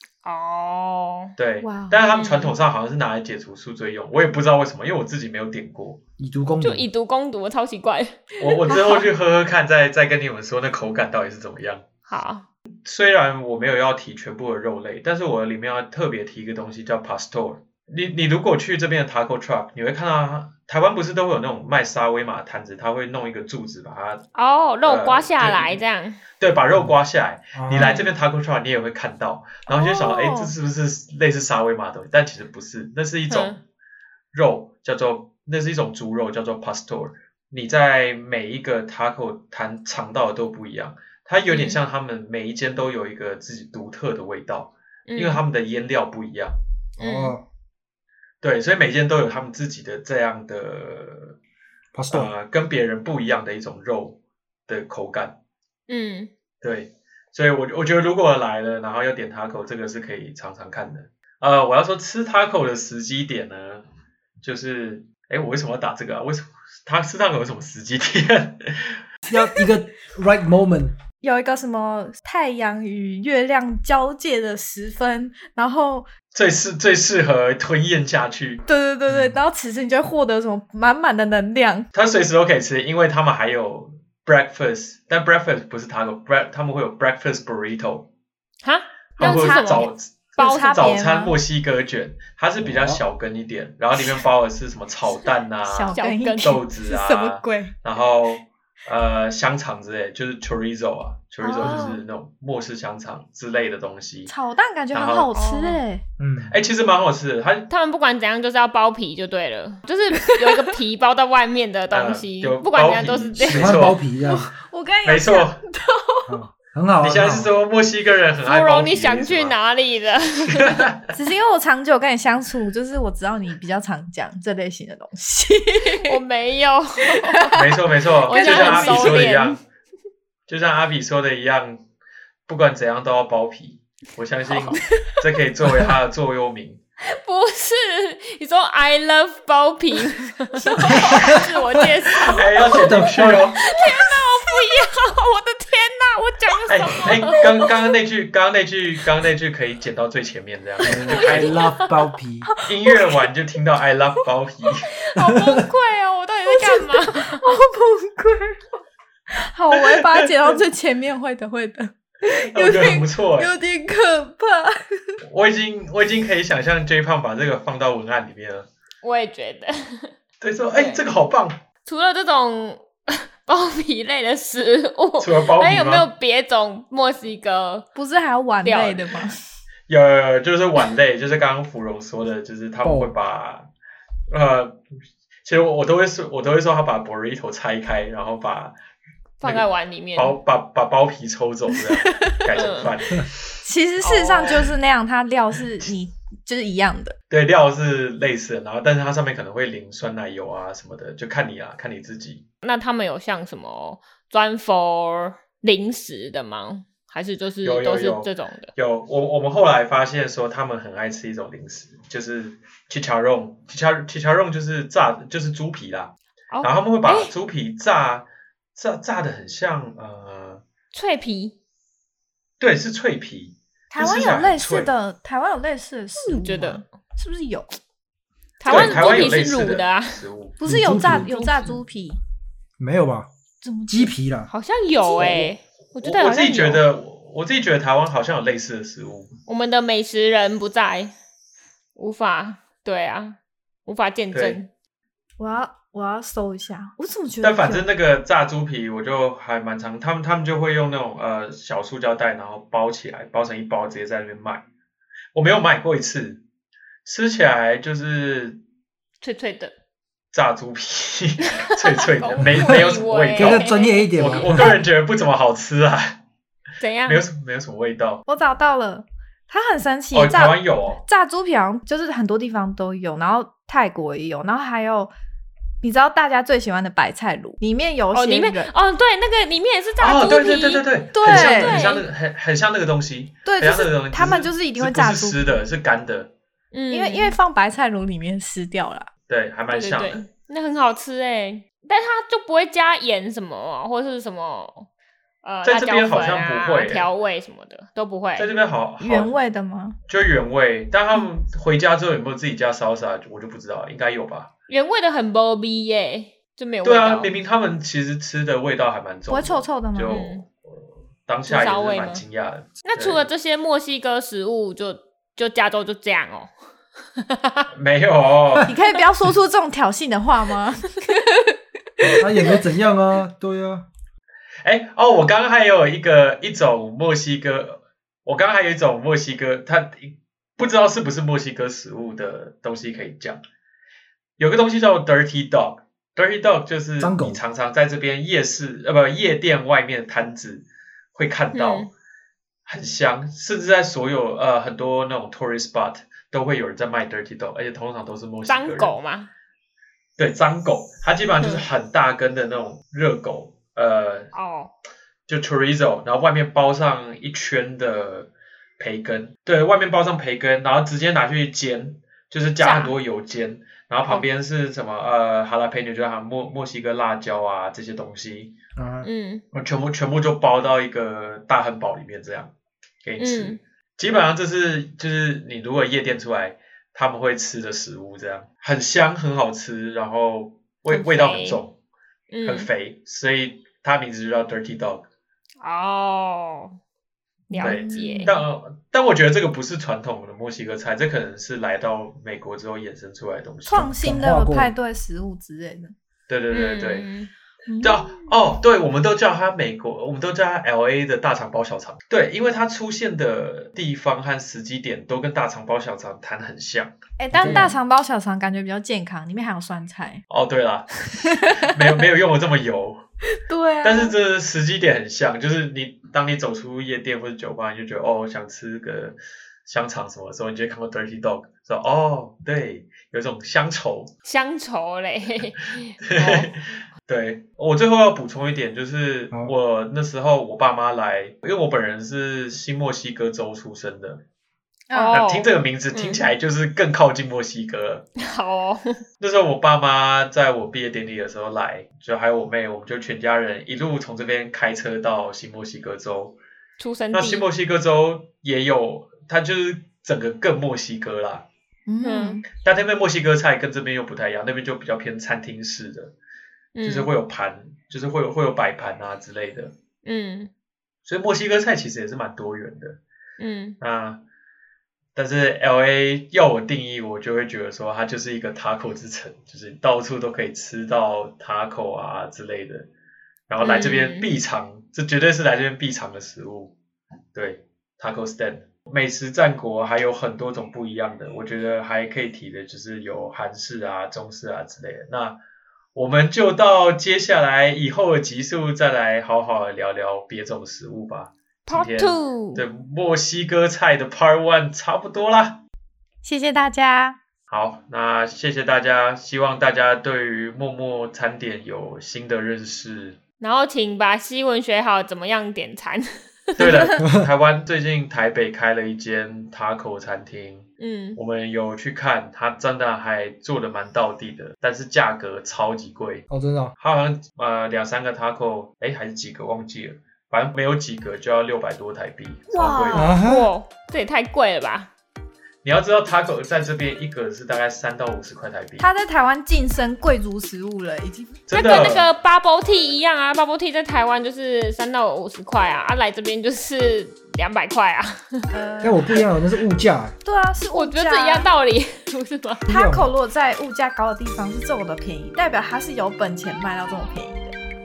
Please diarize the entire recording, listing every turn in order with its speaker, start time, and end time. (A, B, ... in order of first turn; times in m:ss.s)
0:00.2-0:01.3 A
0:01.4-0:06.0 B
0:01.6-0:02.0 C
0:02.1-0:02.6 A
0:06.2-0:06.9 D
0:06.6-0:09.0 A
0:08.4-0:11.8 B
0:12.1-0:12.5 A
0:12.8-0:24.2 B
0:24.3-0:26.2 A
0:24.8-0:25.8 B
0:26.4-0:33.6 B
0:27.5-0:27.9 D
0:27.7-0:28.1 A
0:29.7-0:30.5 C
0:33.3-0:33.6 A
0:34.3-0:46.6 B
0:41.5-0:41.8 A
0:45.1-0:45.4 A
0:47.0-0:47.4 A
0:47.0-0:47.4 D
0:48.4-0:51.4 B
0:51.9-0:52.3 D
0:52.1-0:55.4 B
0:55.9-0:56.3 A
0:56.6-1:03.8 B
1:04.4-1:09.0 B
1:09.3-1:10.9 D
1:11.2-1:16.1 C
1:16.3-1:18.6 B
1:18.6-1:21.9 C
1:19.1-1:19.4 D
1:21.9-1:28.1 B
1:28.6-1:31.0 A
1:29.2-1:44.3 B
1:29.2-1:29.8 C
1:30.4-1:31.4 C
1:32.6-1:33.0 D
1:35.6-1:37.8 C
1:35.9-1:36.6 A
1:41.4-1:42.0 C
1:41.6-1:41.9 A
1:44.3-1:46.0 C
1:44.9-1:45.3 B
1:45.3-1:45.8 A
1:46.2-1:46.6 D
1:46.5-1:47.7 B
1:47.7-1:53.9 A
1:50.3-1:50.6 C
1:51.9-1:54.0 B
1:53.5-1:54.5 D
1:54.2-1:56.3 C
1:55.0-1:55.6 B
1:56.3-1:57.5 D
1:57.0-1:59.6 B
1:58.4-2:00.8 A
2:00.5-2:01.1 B
2:01.1-2:06.2 C
2:05.9-2:07.5 A
2:07.1-2:07.6 C
2:07.5-2:09.6 B
2:08.3-2:09.3 C
2:08.3-2:09.6 A
2:10.5-2:11.8 B
2:12.5-2:16.8 B
2:17.0-2:27.7 A
2:20.6-2:21.5 C
2:20.8-2:21.4 D
2:22.2-2:23.6 B
2:22.9-2:23.4 D
2:23.8-2:24.6 C
2:26.7-2:31.6 B
2:30.8-2:32.5 D
2:30.8-2:31.9 A
2:32.5-2:33.2 C
2:32.6-2:34.9 B
2:35.0-2:37.4 A
2:35.2-2:35.6 D
2:36.5-2:38.6 C
2:39.4-2:45.2 C
2:39.7-2:40.5 B
2:42.5-2:43.5 B
2:45.2-2:48.7 B
2:49.0-2:50.1 A
2:50.4-2:51.6 B
2:50.7-2:51.0 A
2:51.8-2:57.9 A
2:55.2-2:56.1 B
2:57.9-2:59.4 C
2:58.6-2:59.2 A
2:59.9-3:03.7 B
3:02.8-3:03.1 D
3:04.3-3:04.8 B
3:05.4-3:08.7 B
3:09.4-3:10.4 A
3:09.4-3:13.5 B
3:12.5-3:12.9 A
3:13.6-3:17.2 C
3:14.0-3:14.7 A
3:17.3-3:22.4 B
3:22.6-3:28.7 A
3:27.6-3:40.6 B
3:36.5-3:37.3 A
3:40.9-3:41.5 A
3:42.6-3:44.9 B
3:43.9-3:47.7 C
3:46.2-3:46.8 A
3:48.6-3:50.2 A
3:48.6-3:50.6 B
3:48.6-3:49.2 C
3:50.6-3:52.2 C
3:50.6-3:51.3 D
3:51.2-3:51.8 A
3:52.8-3:53.3 D
3:53.6-3:54.1 C
3:53.9-3:54.5 D
3:54.5-3:56.8 A
3:56.0-3:59.3 B
3:59.5-4:01.1 A
4:02.0-4:04.7 A
4:04.3-4:04.6 B
4:05.4-4:07.9 C
4:07.4-4:14.6 B
4:15.3-4:16.4 B
4:17.0-4:18.6 B
4:19.2-4:19.7 A
4:20.3-4:26.2 B
4:21.4-4:24.8 A
4:22.4-4:22.8 D
4:23.4-4:24.7 D
4:26.8-4:27.2 A
4:27.0-4:28.2 B
4:28.3-4:35.1 C
4:30.1-4:31.0 B
4:35.8-4:38.7 C
4:38.1-4:42.0 A
4:40.0-4:46.3 B
4:41.1-4:41.8 C
4:43.4-4:45.5 C
4:46.7-4:47.4 A
4:46.9-4:49.1 C
4:49.3-4:50.2 B
4:49.7-4:54.9 A
4:55.4-4:58.5 A
4:55.6-4:57.1 B
4:58.4-4:59.3 B
4:59.0-5:00.0 C
5:00.1-5:04.5 B
5:04.7-5:07.3 A
5:06.8-5:13.3 B
5:09.3-5:10.3 C
5:10.1-5:10.4 A
5:11.5-5:12.2 A
5:12.8-5:16.5 A
5:17.2-5:17.7 A
5:17.7-5:18.7 B
5:18.6-5:22.6 C
5:22.0-5:23.8 D
5:24.6-5:33.4 B
5:34.4-5:41.9 B
5:37.0-5:37.4 D
5:41.5-5:41.9 A
5:42.6-5:48.9 B
5:48.5-5:49.3 A
5:50.2-5:54.3 B
5:51.4-5:51.6 A
5:54.3-5:54.7 A
5:55.3-6:08.6 B
6:02.6-6:02.9 A
6:08.8-6:09.1 D
6:09.0-6:09.4 A
6:09.5-6:12.5 B
6:13.0-6:21.8 B
6:13.2-6:13.6 A
6:20.9-6:21.6 A
6:22.3-6:22.7 A
6:22.4-6:25.0 B
6:25.6-6:26.8 A
6:27.5-6:28.4 A
6:27.5-6:28.4 C
6:27.6-6:33.9 B
6:33.6-6:35.9 C
6:33.8-6:34.7 D
6:36.3-6:37.0 B
6:36.5-6:37.3 A
6:37.7-6:38.3 C
6:37.8-6:47.7 B
6:47.2-6:50.2 C
6:47.4-6:47.7 D
6:50.3-6:53.0 B
6:51.2-6:51.6 C
6:53.5-6:54.1 C
6:53.8-7:04.1 B
7:04.2-7:06.5 A
7:06.0-7:14.2 B
7:14.9-7:15.2 C
7:14.9-7:16.3 A
7:15.1-7:18.0 B
7:18.2-7:19.0 A
7:19.2-7:26.4 B
7:26.8-7:27.4 A
7:27.1-7:31.4 B
7:31.9-7:32.4 C
7:32.0-7:32.4 A
7:32.6-7:36.1 B
7:36.7-7:37.1 A
7:36.8-7:39.7 B
7:40.0-7:40.5 A
7:41.0-7:43.0 B
7:43.4-7:43.8 A
7:43.8-7:44.2 B
7:45.1-7:52.9 B
7:53.5-7:56.7 B
7:53.6-7:54.3 A
7:57.3-8:05.4 B
8:05.9-8:15.6 B
8:11.7-8:12.6 A
8:16.2-8:17.2 C
8:17.5-8:23.2 B
8:23.4-8:26.8 A
8:26.6-8:36.2 B
8:30.8-8:31.2 A
8:36.3-8:36.7 D
8:36.8-8:43.1 B
8:42.5-8:43.1 C
8:42.9-8:43.5 D
8:43.2-8:44.9 A
8:45.6-8:48.9 B
8:48.8-8:51.9 C
8:51.5-8:52.1 B
8:51.5-8:58.4 A
8:58.5-8:59.2 C
8:58.8-9:00.1 D
9:00.2-9:01.5 C
9:00.7-9:02.6 A
9:02.7-9:03.1 D
9:02.7-9:07.6 C